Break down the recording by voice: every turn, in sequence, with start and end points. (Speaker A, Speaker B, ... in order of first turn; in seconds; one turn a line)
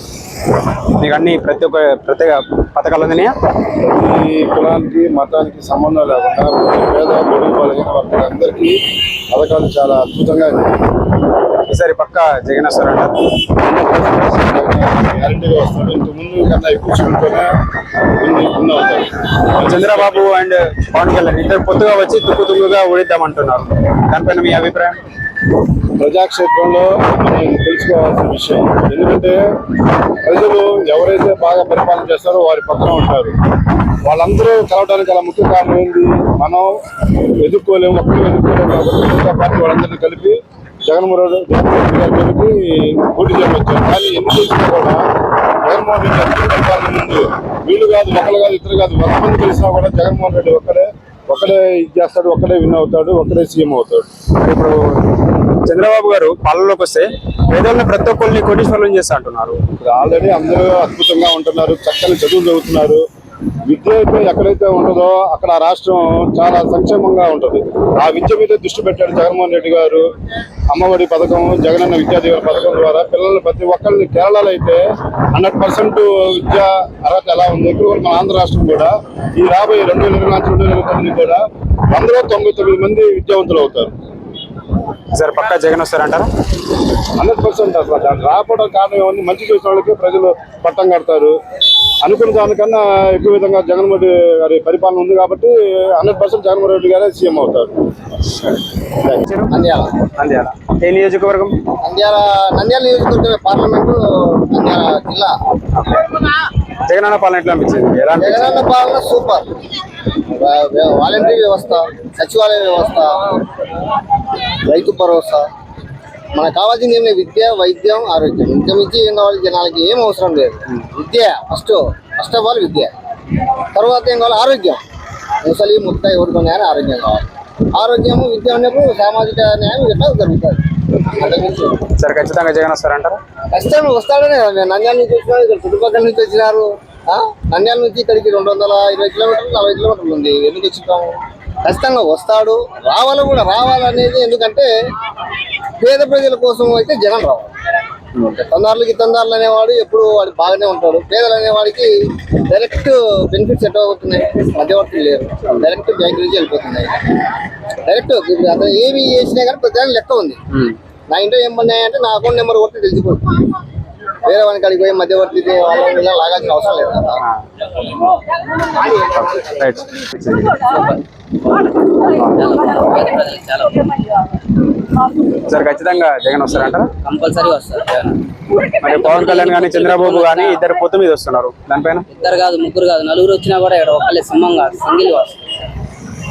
Speaker A: 1.0-3.3
Speaker B: 3.8-8.8
Speaker B: 9.3-10.8
Speaker A: 11.7-13.1
Speaker B: 13.6-17.5
Speaker B: 18.2-20.3
Speaker A: 19.6-25.0
Speaker B: 26.0-29.4
Speaker B: 30.2-33.3
Speaker B: 34.0-36.7
Speaker B: 37.4-45.0
Speaker B: 45.6-54.1
Speaker A: 54.4-54.8
Speaker A: 55.6-59.6
Speaker B: 59.8-63.0
Speaker B: 63.6-70.0
Speaker B: 70.7-74.8
Speaker B: 75.3-81.4
Speaker B: 81.9-83.9
Speaker A: 85.1-86.3
Speaker B: 87.1-91.4
Speaker B: 92.0-97.7
Speaker A: 99.1-99.5
Speaker C: 99.5-99.9
Speaker A: 100.2-101.6
Speaker C: 101.8-105.3
Speaker A: 105.7-106.1
Speaker A: 106.8-108.7
Speaker C: 108.2-109.4
Speaker C: 110.3-113.4
Speaker C: 114.6-115.5
Speaker C: 116.3-122.9
Speaker C: 123.7-124.8
Speaker C: 125.4-131.8
Speaker A: 131.9-133.2
Speaker C: 133.5-144.7
Speaker C: 145.8-147.5
Speaker C: 148.3-151.9
Speaker C: 152.5-156.9
Speaker C: 157.8-160.4
Speaker C: 161.1-163.2
Speaker C: 164.2-167.2
Speaker A: 169.0-170.6
Speaker D: 170.6-174.0
Speaker A: 175.4-176.9
Speaker D: 177.0-178.2
Speaker A: 178.8-182.1
Speaker D: 178.8-180.6
Speaker D: 182.1-185.4